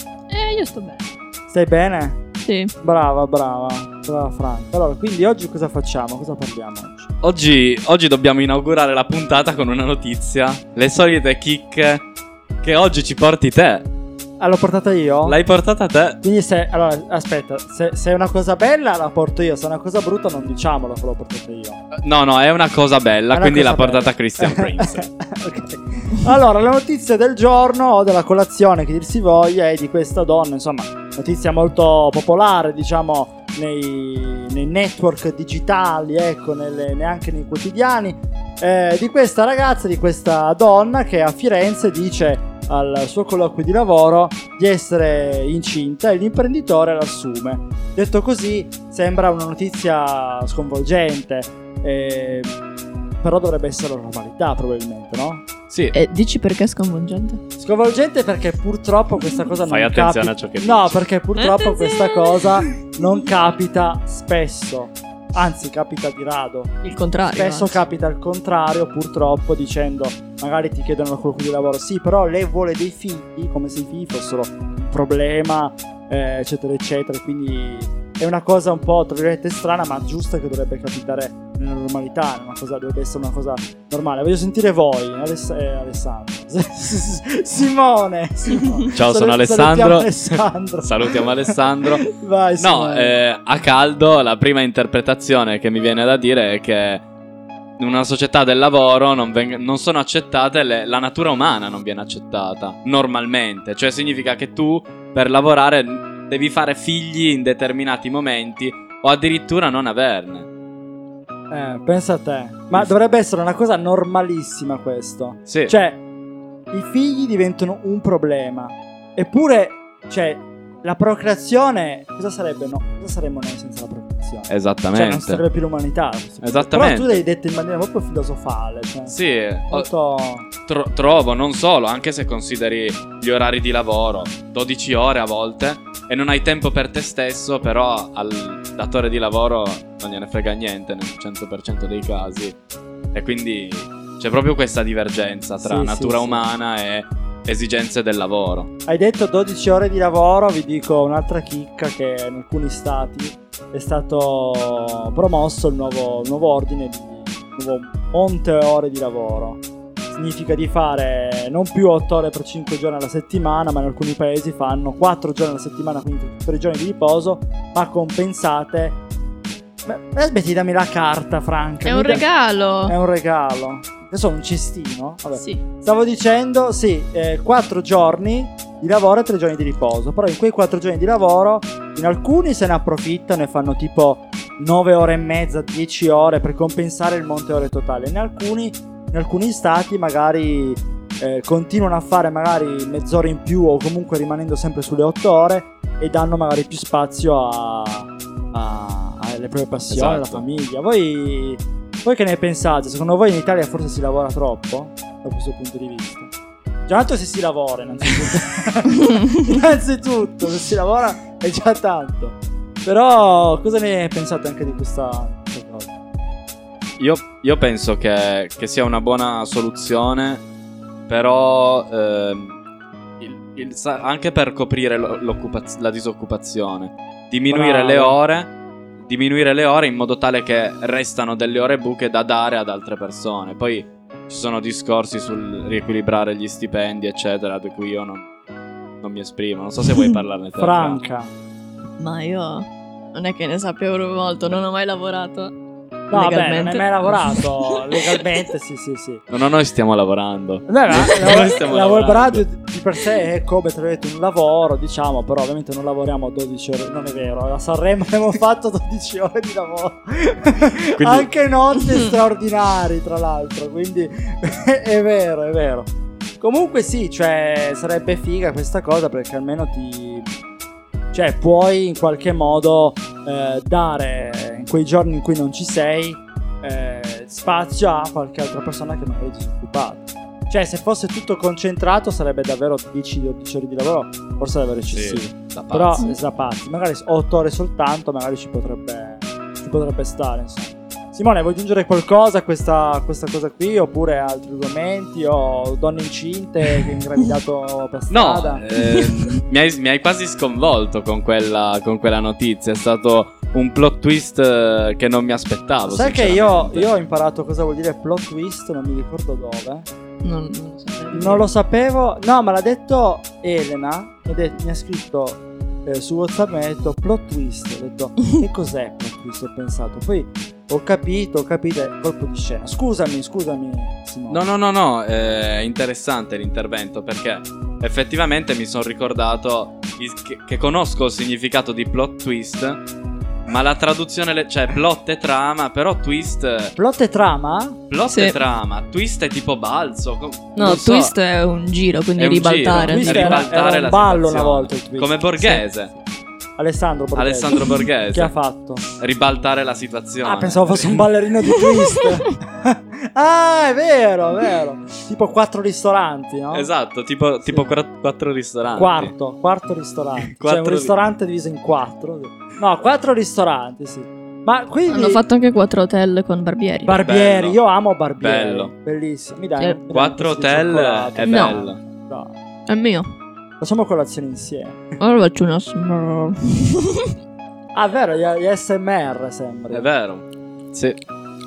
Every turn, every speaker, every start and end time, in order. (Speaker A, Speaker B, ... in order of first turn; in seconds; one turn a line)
Speaker A: 0.3-1.1
Speaker B: 1.5-2.2
Speaker A: 2.4-2.7
Speaker B: 2.8-7.1
Speaker C: 7.2-12.1
Speaker C: 12.6-13.9
Speaker B: 14.4-15.4
Speaker C: 15.2-16.2
Speaker B: 16.2-21.8
Speaker C: 22.0-25.1
Speaker B: 23.3-52.6
Speaker B: 53.2-55.4
Speaker C: 55.7-55.9
Speaker A: 55.9-57.4
Speaker B: 57.6-91.5
Speaker A: 59.2-59.5
Speaker C: 59.7-61.0
Speaker A: 61.4-63.1
Speaker A: 66.8-67.8
Speaker C: 88.9-92.0
Speaker B: 92.1-93.2
Speaker C: 92.6-97.0
Speaker C: 97.8-110.5
Speaker B: 111.5-116.0
Speaker C: 115.5-115.8
Speaker B: 116.7-129.1
Speaker C: 124.5-125.4
Speaker C: 126.4-127.2
Speaker C: 129.1-129.9
Speaker B: 129.7-130.5
Speaker C: 130.7-142.6
Speaker C: 143.1-148.7
Speaker B: 145.6-146.4
Speaker B: 148.9-159.6
Speaker B: 160.1-169.0
Speaker B: 169.8-172.3
Speaker A: 171.8-172.9
Speaker B: 172.8-206.3
Speaker A: 175.3-175.6
Speaker C: 199.9-200.5
Speaker B: 206.9-215.9
Speaker C: 217.0-220.4
Speaker C: 221.1-222.6
Speaker C: 223.2-238.3
Speaker B: 227.5-228.2
Speaker C: 239.0-241.0
Speaker A: 239.8-240.2
Speaker B: 240.6-241.3
Speaker A: 242.0-245.5
Speaker A: 246.1-248.2
Speaker B: 246.1-249.2
Speaker C: 249.3-252.4
Speaker B: 250.7-270.3
Speaker C: 261.0-261.3
Speaker A: 261.8-262.1
Speaker B: 271.1-298.7
Speaker C: 284.9-286.1
Speaker C: 298.1-306.9
Speaker A: 298.8-299.3
Speaker B: 305.9-309.9
Speaker A: 310.2-311.5
Speaker B: 311.1-324.4
Speaker C: 324.3-332.8
Speaker C: 333.5-336.8
Speaker B: 336.8-337.8
Speaker C: 337.9-341.1
Speaker A: 338.1-338.4
Speaker A: 340.6-343.5
Speaker C: 342.2-345.9
Speaker B: 342.7-346.0
Speaker B: 346.6-348.8
Speaker C: 347.1-348.3
Speaker C: 349.0-351.0
Speaker B: 350.2-356.7
Speaker A: 351.5-352.1
Speaker C: 356.5-359.1
Speaker B: 357.5-357.8
Speaker B: 358.7-365.2
Speaker C: 360.3-360.9
Speaker A: 364.9-367.0
Speaker B: 366.9-372.4
Speaker C: 367.0-367.6
Speaker C: 368.2-368.7
Speaker C: 369.9-371.8
Speaker A: 371.2-371.6
Speaker A: 372.7-373.1
Speaker B: 373.6-374.9
Speaker A: 375.0-377.1
Speaker B: 377.7-379.9
Speaker C: 379.7-381.0